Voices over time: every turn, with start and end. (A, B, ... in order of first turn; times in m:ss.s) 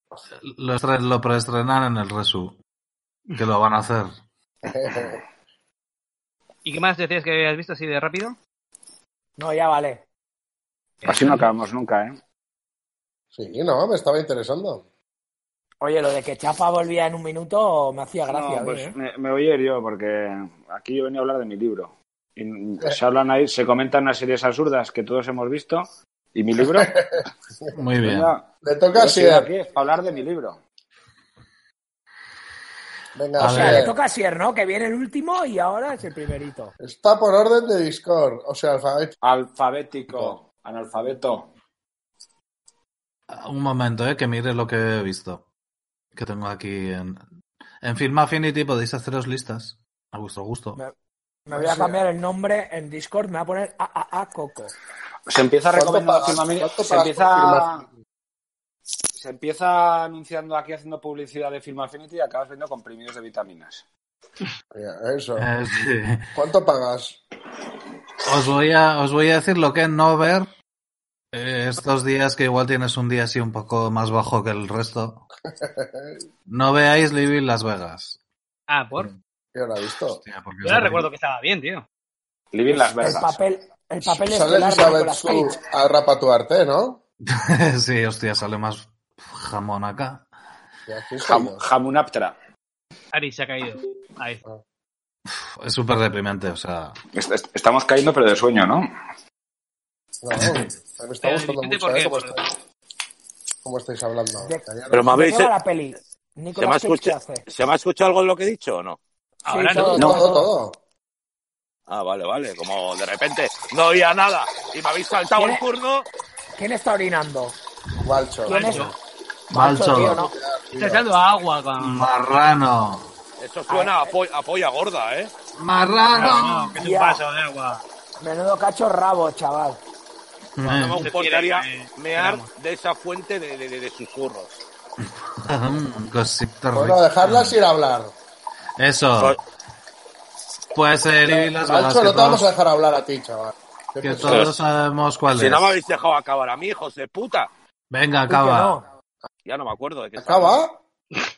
0:00.4-0:02.6 A
0:03.4-0:04.1 A
0:04.6-0:05.2 B
0:06.6-0:08.4 C
0:09.4-0:10.0 D
0:11.0-0:12.2 E
0:11.0-0:11.4 C
0:13.3-0:14.8 B
0:15.8-0:18.9 D
0:18.3-0:27.0 E
0:26.7-0:27.0 B
0:27.7-0:28.3 A
0:28.0-0:30.6 E
0:28.6-0:29.5 B
0:33.1-0:34.0 B
0:33.4-0:36.7 D
0:33.4-0:33.9 A
0:36.8-0:39.1 B
0:39.2-0:41.5 E
0:43.3-0:45.4 A
0:46.1-0:47.2 A
0:47.8-0:50.8 A
0:51.4-0:54.7 D
0:51.5-0:52.0 B
0:55.3-0:57.8 E
0:55.7-0:57.8 B
0:59.2-1:03.8 E
1:04.7-1:05.5 B
1:05.4-1:06.3 A
1:06.3-1:07.2 B
1:08.2-1:10.5 A
1:11.3-1:15.2 A
1:15.6-1:16.2 B
1:16.5-1:18.2 A
1:18.7-1:19.1 C
1:19.5-1:20.2 B
1:20.2-1:21.1 A
1:20.6-1:21.8 C
1:22.5-1:23.4 E
1:22.7-1:25.6 D
1:24.0-1:27.0 B
1:27.2-1:30.2 A
1:30.9-1:31.6 B
1:31.2-1:32.4 E
1:33.1-1:34.4 C
1:35.3-1:37.0 A
1:37.1-1:38.9 E
1:40.2-1:42.5 B
1:40.4-1:40.7 A
1:41.2-1:42.4 C
1:43.6-1:45.1 B
1:44.4-1:47.4 D
1:44.9-1:45.5 F
1:46.6-1:49.0 F
1:49.4-1:50.1 C
1:49.5-1:50.5 D
1:49.7-1:50.8 B
1:51.9-1:56.1 F
1:55.4-1:55.6 D
1:56.6-1:57.6 D
1:58.0-1:58.8 B
1:58.4-1:58.9 D
1:58.5-1:58.9 C
1:59.5-2:00.3 D
1:59.5-2:00.2 A
2:00.0-2:01.0 B
2:00.8-2:02.1 C
2:01.8-2:03.1 A
2:03.4-2:05.3 F
2:03.7-2:04.1 D
2:05.6-2:06.7 A
2:06.1-2:07.8 C
2:06.7-2:07.2 D
2:08.2-2:09.8 D
2:10.6-2:11.0 A
2:10.6-2:14.6 F
2:11.0-2:12.5 C
2:15.4-2:17.6 A
2:16.7-2:18.1 B
2:18.8-2:19.4 A
2:20.7-2:22.4 A
2:21.3-2:24.5 B
2:24.0-2:25.7 A
2:24.2-2:24.6 F
2:25.3-2:27.5 F
2:27.9-2:28.8 A
2:28.3-2:28.8 D
2:29.4-2:30.6 F
2:30.2-2:30.8 B